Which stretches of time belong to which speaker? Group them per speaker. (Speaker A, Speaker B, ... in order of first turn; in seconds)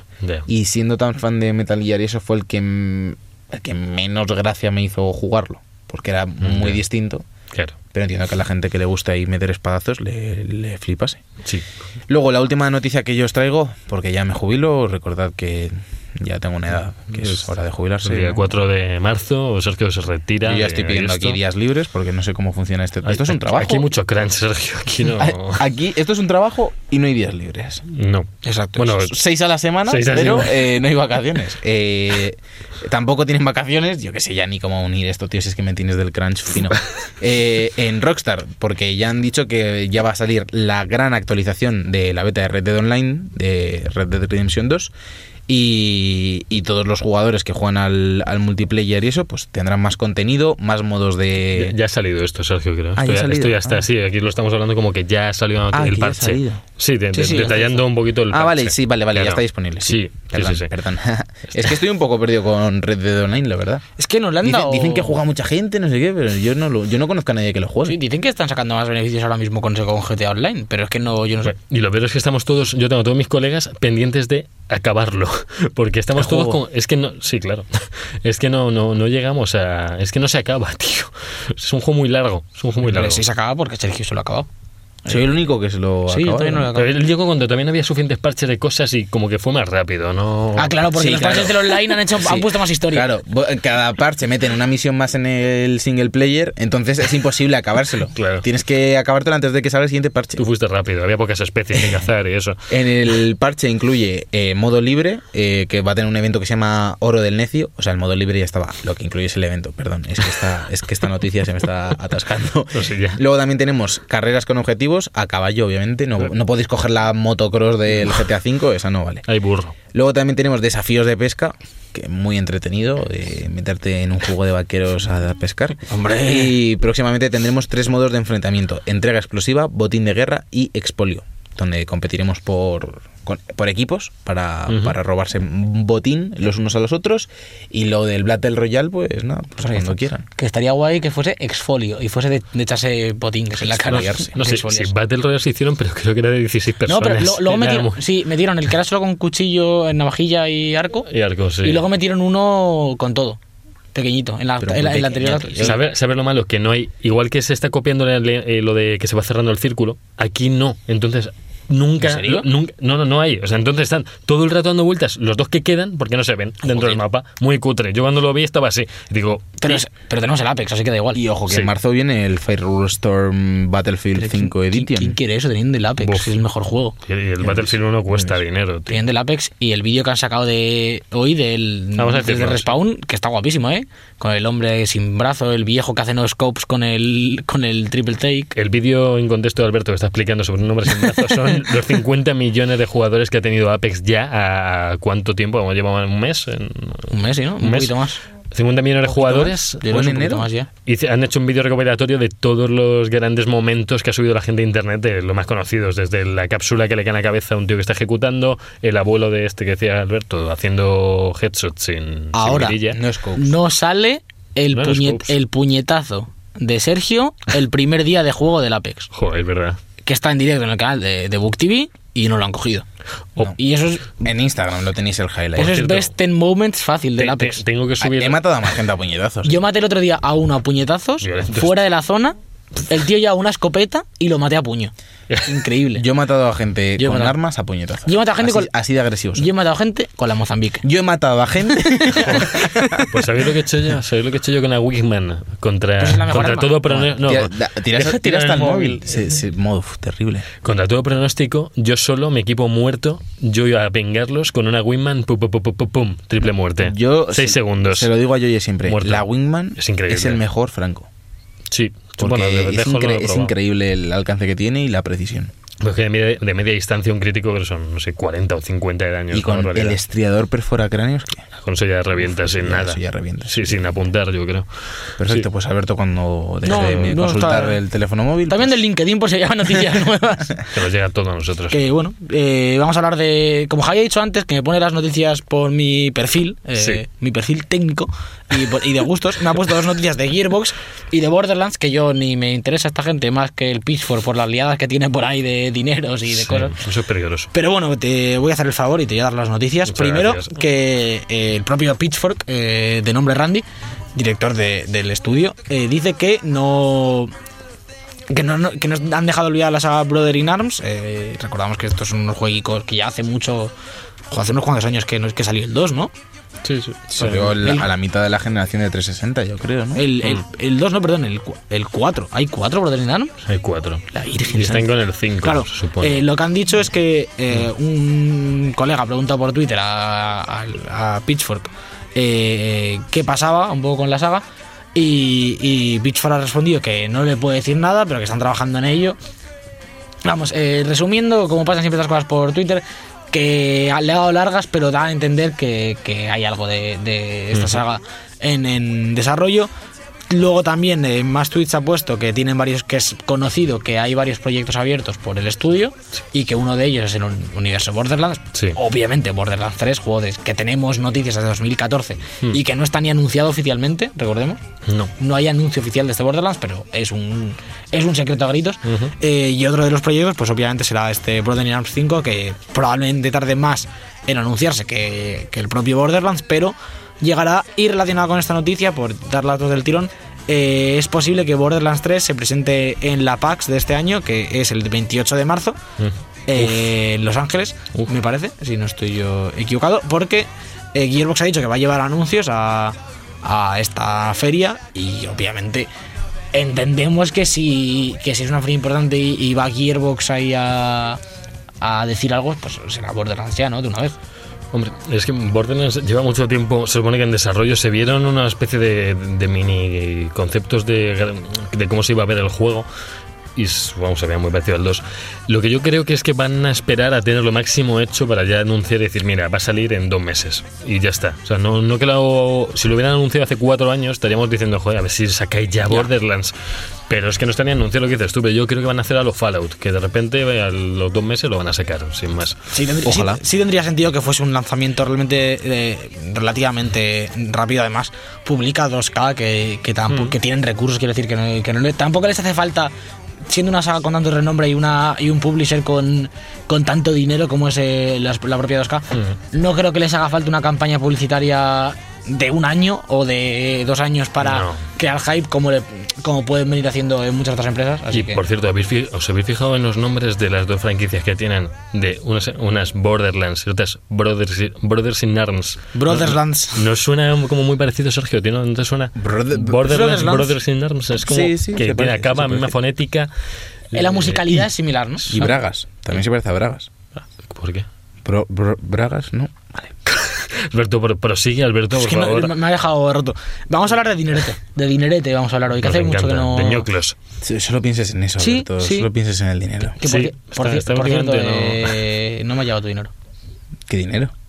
Speaker A: 0.2-0.5, 6.4-6.8, 17.2-17.5, 18.0-21.4, 23.0-25.6, 27.9-29.2, 29.9-30.6, 51.5-60.7, 71.5-83.2, 86.7-90.8, 98.1-98.5, 100.4-102.6, 112.7-113.2, 119.3-119.7, 134.7-134.9, 143.9-148.0, 151.1-151.8, 155.6-169.8, 176.0-176.3, 177.1-179.0, 181.9-182.8, 188.5-197.9, 198.5-199.7, 200.8-213.0, 214.7-215.3, 219.1-219.8, 225.6-226.1, 227.2-228.4, 231.2-231.7, 243.1-249.0, 250.6-258.1, 258.9-259.2, 259.8-260.4, 261.7-263.5, 265.8-270.0, 271.6-274.7, 275.2-275.4, 276.7-277.1, 280.7-281.8, 296.3-297.5, 299.9-300.6, 316.6-317.6, 323.5-326.2, 364.9-365.1, 368.9-369.1, 386.0-386.9, 404.7-412.9, 413.6-426.5, 427.1-432.6, 454.4-454.8, 458.1-473.3, 473.9-474.6, 477.5-477.9, 480.1-482.5, 485.8-487.1, 490.0-492.0
Speaker B: 0.5-7.2, 7.9-11.2, 12.1-18.5, 20.4-23.9, 25.1-27.8, 29.1-44.9, 45.5-51.7, 53.0-53.8, 55.7-56.6, 58.3-63.8, 64.4-68.0, 76.2-76.6, 85.1-86.7, 90.9-100.4, 102.7-119.2, 119.9-140.2, 143.6-144.3, 154.6-155.8, 162.0-162.4, 171.1-175.2, 199.8-200.5, 212.8-213.6, 224.2-225.8, 228.0-229.6, 235.9-239.5, 240.8-243.2, 246.9-250.4, 256.8-261.1, 262.2-265.5, 269.3-271.4, 272.6-273.8, 275.2-278.8, 317.1-320.1, 433.0-433.4, 469.2-470.1, 471.2-472.7, 475.3-476.9, 478.2-479.9, 487.4-490.0, 493.9-494.3
Speaker C: 28.4-29.0, 57.1-57.8, 64.0-65.2, 67.8-71.5, 82.8-84.5, 86.1-86.9, 90.5-93.1, 125.9-126.5, 139.6-144.9, 146.8-151.1, 151.6-153.4, 153.9-155.8, 169.6-171.2, 174.2-176.9, 178.9-188.5, 197.1-198.2, 199.1-200.7, 212.3-212.8, 213.3-219.1, 220.0-222.8, 223.4-224.2, 225.6-227.6, 229.4-234.9, 235.4-236.0, 237.0-237.4, 238.0-238.7, 239.3-240.8, 242.1-243.0, 246.0-247.1, 276.6-277.8, 278.5-280.7, 281.7-296.8, 297.5-307.3, 308.3-313.7, 314.3-316.1, 317.6-317.9, 319.9-323.4, 324.1-324.9, 325.4-334.4, 334.9-339.2, 340.2-349.7, 350.3-364.6, 365.2-385.8, 386.5-395.9, 396.5-401.2, 401.8-404.1, 432.7-442.9, 443.5-458.4, 465.9-466.8, 469.8-470.6, 473.9-475.5, 481.9-486.9, 488.4-489.1, 490.0-493.1